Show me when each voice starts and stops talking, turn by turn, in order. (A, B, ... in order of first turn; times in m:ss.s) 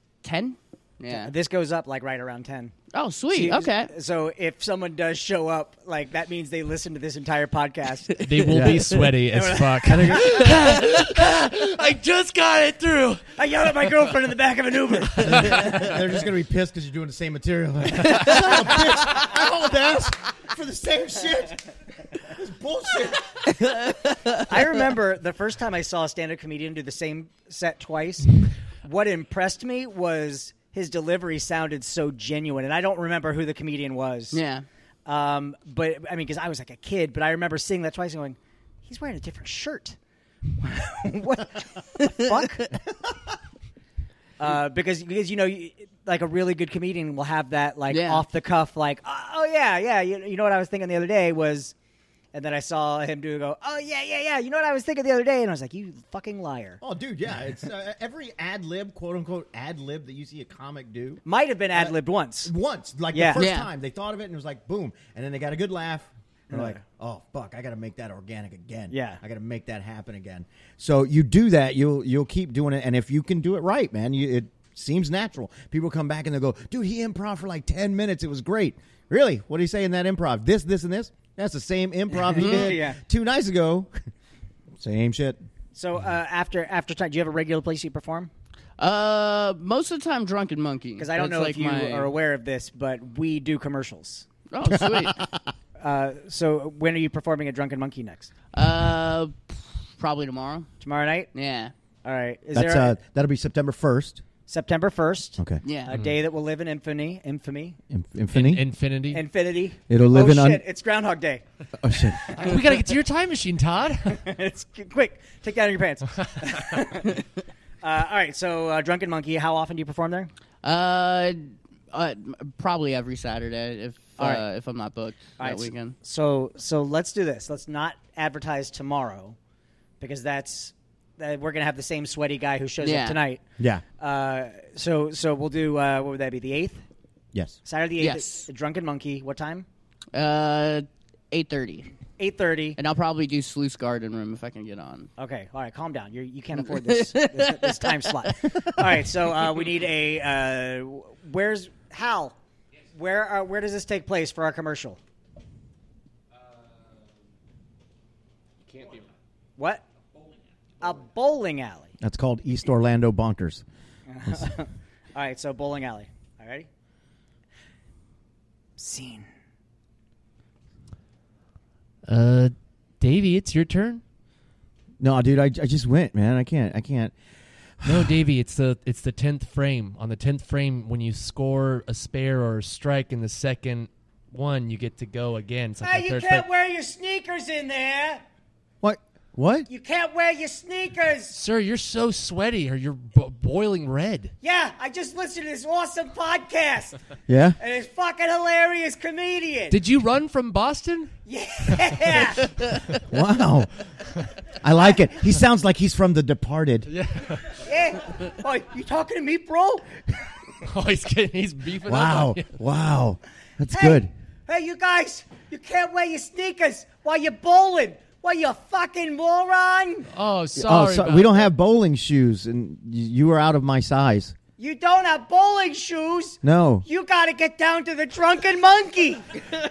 0:00.2-0:01.3 A
0:01.1-0:02.8 B
0:02.9-0:03.9 A
0:03.3-0:08.3 B
0:08.2-0:13.4 C
0:08.5-0:08.9 D
0:09.3-0:10.9 B
0:10.0-0:10.3 D
0:13.4-0:15.9 B
0:15.2-0:15.8 C
0:15.2-0:23.4 D
0:23.6-0:24.4 A
0:24.3-0:34.4 B
0:34.3-0:34.6 A
0:35.1-0:40.0 B
0:40.6-0:42.8 B
0:44.4-0:51.7 B
0:47.9-0:48.2 A
0:52.3-0:56.8 B
0:56.8-1:01.2 D
1:01.2-1:02.5 B
1:01.7-1:23.9 D
1:03.1-1:03.4 B
1:03.4-1:03.7 A
1:06.5-1:06.8 B
1:08.9-1:09.2 B
1:22.2-1:23.0 B
1:22.4-1:22.8 A
1:24.8-1:25.4 D
1:25.8-1:28.3 B
1:28.8-1:32.1 A
1:31.0-1:34.3 B
1:34.5-1:35.2 A
1:34.7-1:35.3 D
1:35.8-1:38.3 B
1:38.5-1:40.7 A
1:40.8-1:41.3 B
1:41.3-1:41.7 A
1:42.0-1:43.0 B
1:42.5-1:44.2 D
1:44.5-1:47.8 B
1:45.6-1:46.0 A
1:47.9-1:48.6 D
1:48.3-1:49.2 C
1:49.1-1:51.4 B
1:49.9-1:50.6 D
1:51.8-1:52.4 D
1:52.4-1:54.2 C
1:54.1-1:57.2 B
1:57.8-2:00.3 B
2:00.6-2:06.0 A
2:04.2-2:04.4 B
2:05.4-2:09.4 B
2:10.0-2:13.4 B
2:12.8-2:13.2 A
2:13.6-2:13.8 D
2:14.0-2:16.8 B
2:17.3-2:17.6 D
2:17.6-2:19.7 B
2:18.0-2:18.5 A
2:20.1-2:21.9 A
2:22.2-2:22.8 B
2:22.8-2:25.1 A
2:25.2-2:32.4 B
2:26.6-2:28.4 A
2:32.9-2:35.0 B
2:38.7-2:39.1 C
2:39.6-2:39.8 B
2:40.8-2:41.9 B
2:42.0-2:43.6 D
2:44.1-2:46.7 B
2:48.8-2:49.3 B
2:52.1-2:54.0 C
2:55.0-2:57.1 D
2:57.8-2:58.2 D
2:57.8-3:06.4 C
3:05.8-3:08.2 B
3:08.8-3:09.7 D
3:09.7-3:11.4 B
3:11.3-3:14.3 C
3:14.4-3:17.0 B
3:17.3-3:17.6 D
3:17.6-3:19.8 B
3:19.7-3:21.1 C
3:21.3-3:22.6 B
3:21.7-3:23.0 C
3:23.0-3:23.7 D
3:24.6-3:26.9 D
3:26.9-3:27.7 C
3:27.6-3:29.9 B
3:30.6-3:32.5 C
3:31.8-3:34.1 D
3:33.7-3:40.1 B
3:40.1-3:41.5 C
3:40.6-3:44.4 D
3:44.6-3:49.4 B
3:46.4-3:46.8 D